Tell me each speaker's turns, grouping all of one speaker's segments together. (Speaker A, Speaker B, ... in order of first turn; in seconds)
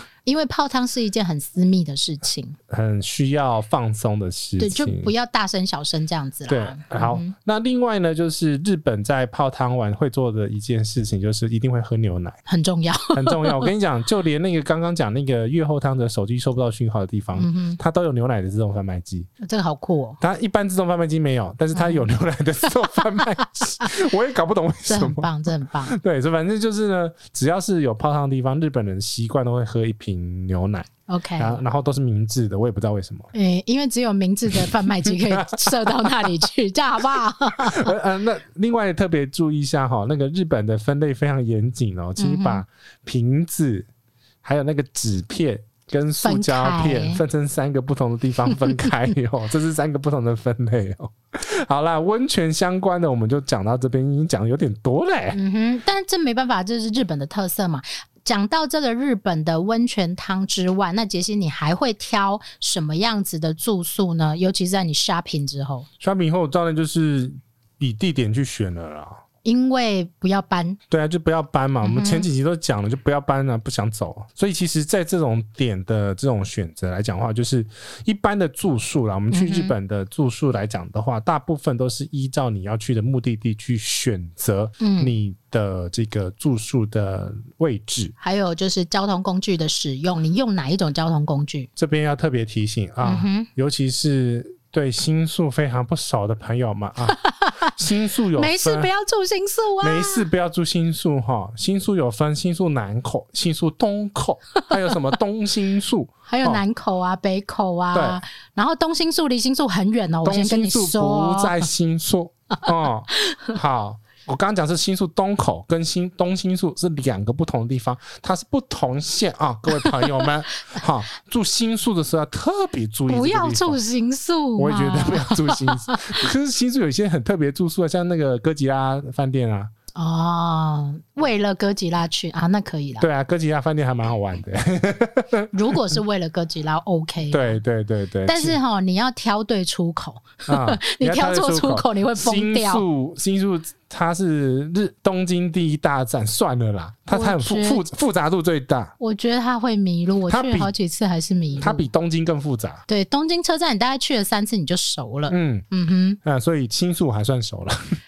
Speaker A: 0.2-2.6, 4.6-7.3, 12.5-13.7, 17.4-17.8, 19.4-20.2, 21.7-22.0, 24.9-26.0, 31.1-31.6, 33.3-37.9, 42.2-42.6, 46.2-47.2, 48.6-48.9, 55.3-65.9, 69.4-70.8, 71.8-72.3, 79.3-79.8, 84.8-85.1, 88.2-91.7, 93.0-93.5, 97.0-97.8, 98.3-100.3, 104.6-104.9, 106.3-111.7, 113.2-113.5, 119.8-120.3, 123.1-126.3, 129.9-133.1, 135.5-137.6, 138.3-142.8, 147.1-147.8, 149.0-151.9, 152.9-156.2
Speaker B: 2.7-5.1, 6.5-12.4, 13.1-19.3, 20.2-25.3, 25.9-33.3, 34.5-36.3, 37.6-43.9, 44.4-55.4, 66.0-69.2, 70.9-88.1, 91.8-98.9, 99.8-106.6, 107.9-108.2, 110.2-123.8, 124.6-129.7, 133.0-135.9, 137.3-138.6, 140.5-148.9, 150.3-150.7, 151.6-152.8, 155.3-155.7, 156.2-158.0